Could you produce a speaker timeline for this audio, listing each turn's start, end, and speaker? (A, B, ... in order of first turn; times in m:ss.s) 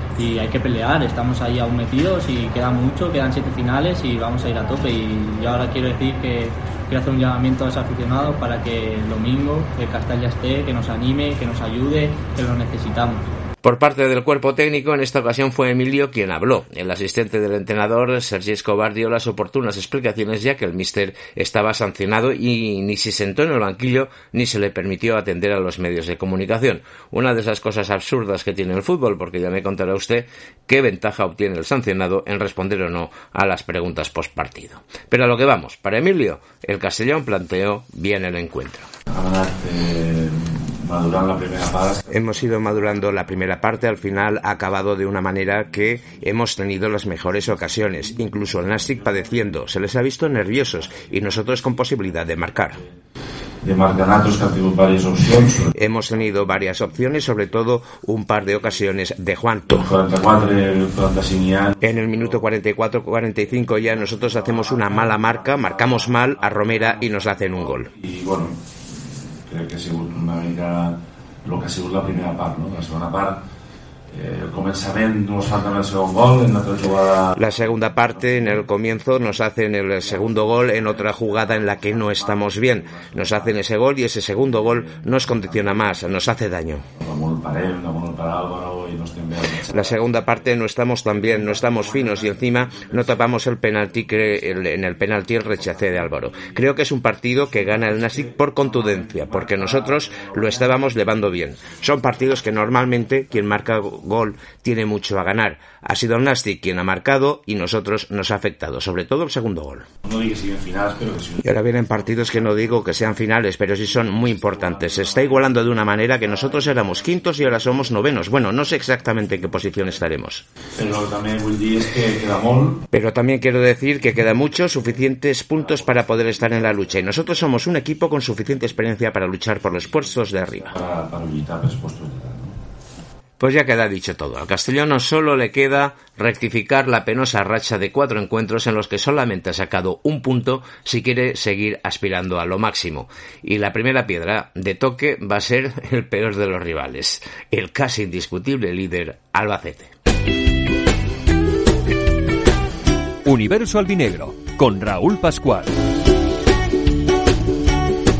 0:00.2-0:13.3 A
0:13.6-0:38.9 B
0:39.1-0:42.0 C
0:42.1-0:52.8 B
0:48.4-0:49.2 C
0:50.8-0:52.8 C
0:53.6-0:55.7 C
0:55.8-0:59.9 B
0:59.7-1:02.4 C
1:01.8-1:07.9 B
1:03.8-1:13.4 C
1:14.1-1:19.4 C
1:17.4-1:26.8 B
1:20.0-1:23.6 C
1:24.4-1:30.2 C
1:29.7-1:49.8 B
1:31.2-1:33.3 C
1:33.9-1:36.5 C
1:37.6-1:41.0 C
1:50.0-1:53.1 C
1:51.4-2:00.4 B
1:54.2-1:56.8 C
2:00.8-2:02.8 C
2:02.9-2:10.7 B
2:05.6-2:07.0 C
2:10.6-2:12.6 C
2:13.4-2:29.9 B
2:33.2-2:35.7 D